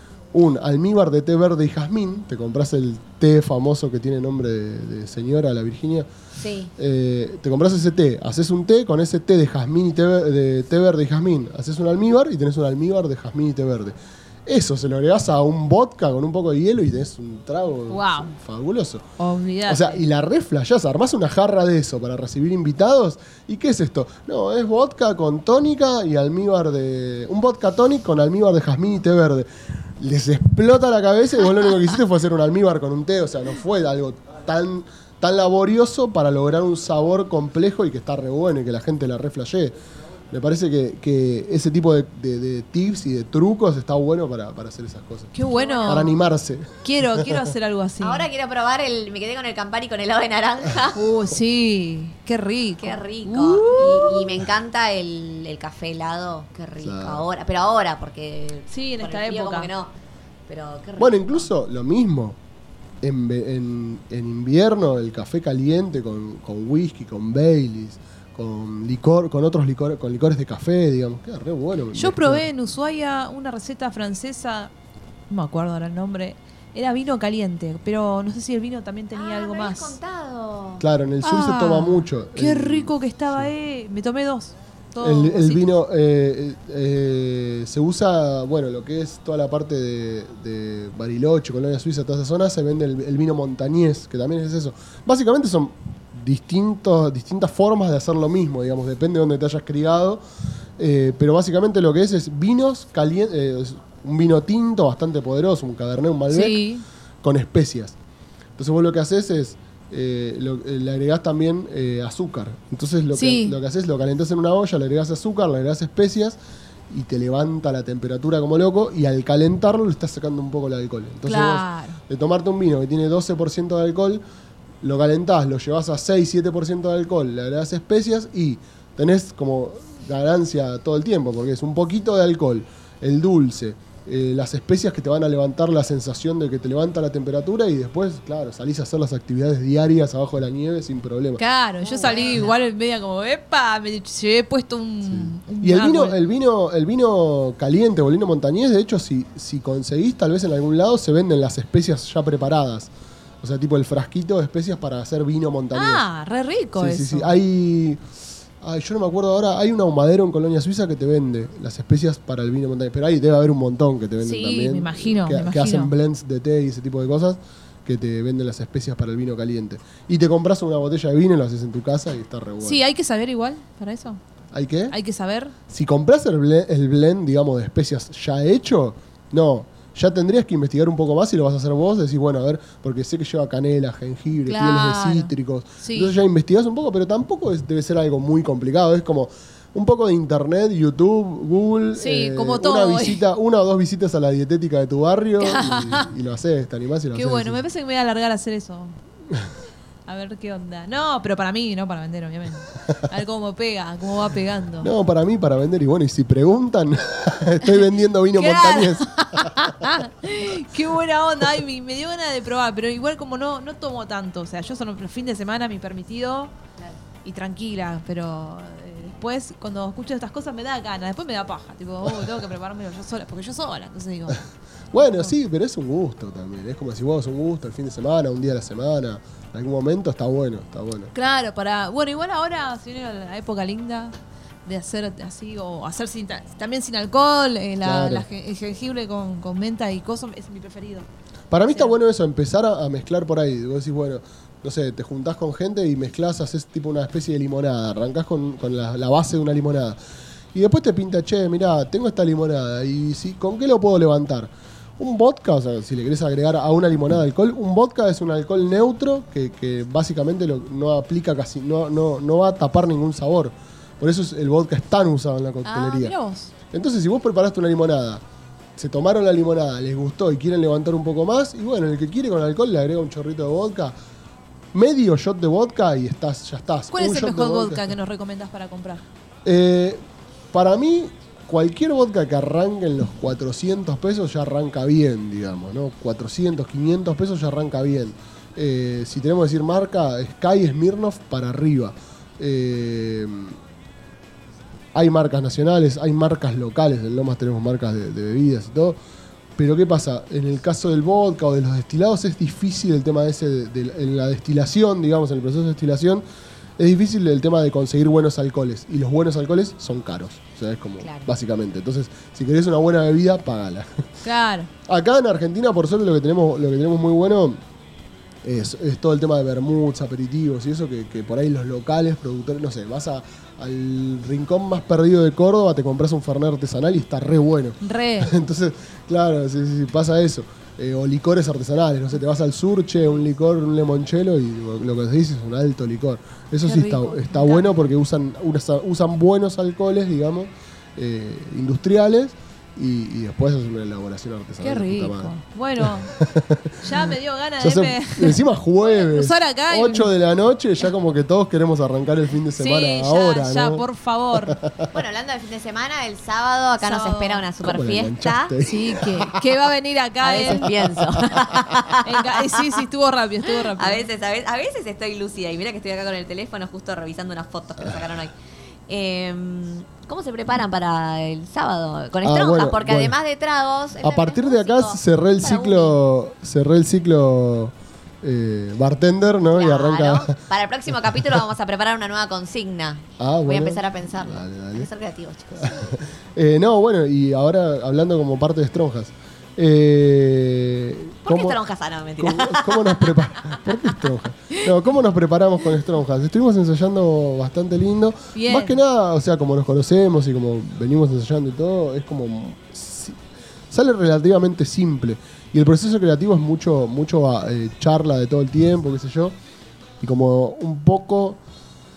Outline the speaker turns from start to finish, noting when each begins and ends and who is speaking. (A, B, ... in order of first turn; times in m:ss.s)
0:00.3-0:06.1 A
0:06.4-0:06.7 B
0:06.8-0:19.0 A
0:17.9-0:18.3 C
0:19.2-0:20.0 C
0:19.7-0:29.5 A
0:30.0-0:39.7 A
0:40.3-0:45.3 A
0:45.3-0:46.1 C
0:45.5-0:46.1 B
0:45.8-0:47.5 A
0:46.8-0:48.3 C
0:48.0-0:51.0 B
0:50.9-0:54.4 C
0:52.8-0:59.9 B
0:56.8-0:57.2 A
0:58.7-0:59.7 C
1:00.5-1:01.5 B
1:01.0-1:02.4 A
1:03.0-1:12.4 A
1:11.9-1:14.7 C
1:15.3-1:20.0 C
1:19.1-1:20.8 B
1:20.8-1:23.5 A
1:21.2-1:25.6 C
1:25.0-1:40.2 A
1:40.8-1:46.6 A
1:46.3-1:46.8 C
1:47.2-1:48.0 A
1:48.6-1:56.4 A
1:53.1-1:53.6 C
1:56.9-2:04.2 A
2:01.2-2:02.0 C
2:04.8-2:21.4 A
2:21.4-2:26.2 C
2:21.8-2:22.5 B
2:25.0-2:36.0 A
2:35.7-2:37.3 C
2:36.8-2:38.0 A
2:38.6-2:52.8 A
2:44.2-2:45.9 C
2:52.6-2:54.2 C
2:54.5-2:55.0 A
2:54.9-2:55.5 C
2:55.7-3:17.6 A
3:04.4-3:06.1 C
3:11.9-3:13.2 C
3:15.4-3:16.1 C
3:17.1-3:19.0 C
3:20.1-3:24.9 C
3:24.8-3:29.8 A
3:28.3-3:36.5 C
3:37.2-3:45.3 C
3:44.9-3:51.1 A
3:51.1-3:54.1 C
3:54.6-4:01.0 C
3:57.8-3:58.2 A
4:01.5-4:10.0 A
4:01.6-4:01.9 C
4:10.5-4:26.1 A
4:25.6-4:26.5 C
4:26.7-4:28.2 A
4:28.8-4:33.9 A
4:34.7-4:37.9 A
4:36.9-4:39.0 C
4:39.4-4:40.0 A
4:40.5-4:53.6 A
4:54.9-4:59.0 A
4:59.6-5:06.2 A
5:06.8-5:14.1 A
5:11.0-5:11.3 B
5:14.2-5:14.7 C
5:14.9-5:17.6 A
5:18.4-5:53.8 A
5:27.8-5:28.3 C
5:36.6-5:37.7 C
5:44.6-5:46.1 C
5:46.8-5:50.1 C
5:52.6-5:54.6 C
5:54.4-5:54.9 A
5:54.9-5:58.5 B
5:56.8-5:57.4 C
5:57.6-5:59.4 A
5:58.6-6:00.7 C
6:00.2-6:02.8 B
6:00.5-6:01.7 A
6:02.0-6:04.0 C
6:03.7-6:08.3 B
6:08.9-6:16.0 B
6:12.2-6:13.2 A
6:14.0-6:20.3 A
6:19.5-6:25.9 B
6:23.2-6:24.9 A
6:25.5-6:31.6 A
6:31.2-6:33.7 B
6:32.2-6:43.2 A
6:38.3-6:38.8 C
6:43.7-6:49.3 A
6:50.0-6:51.4 A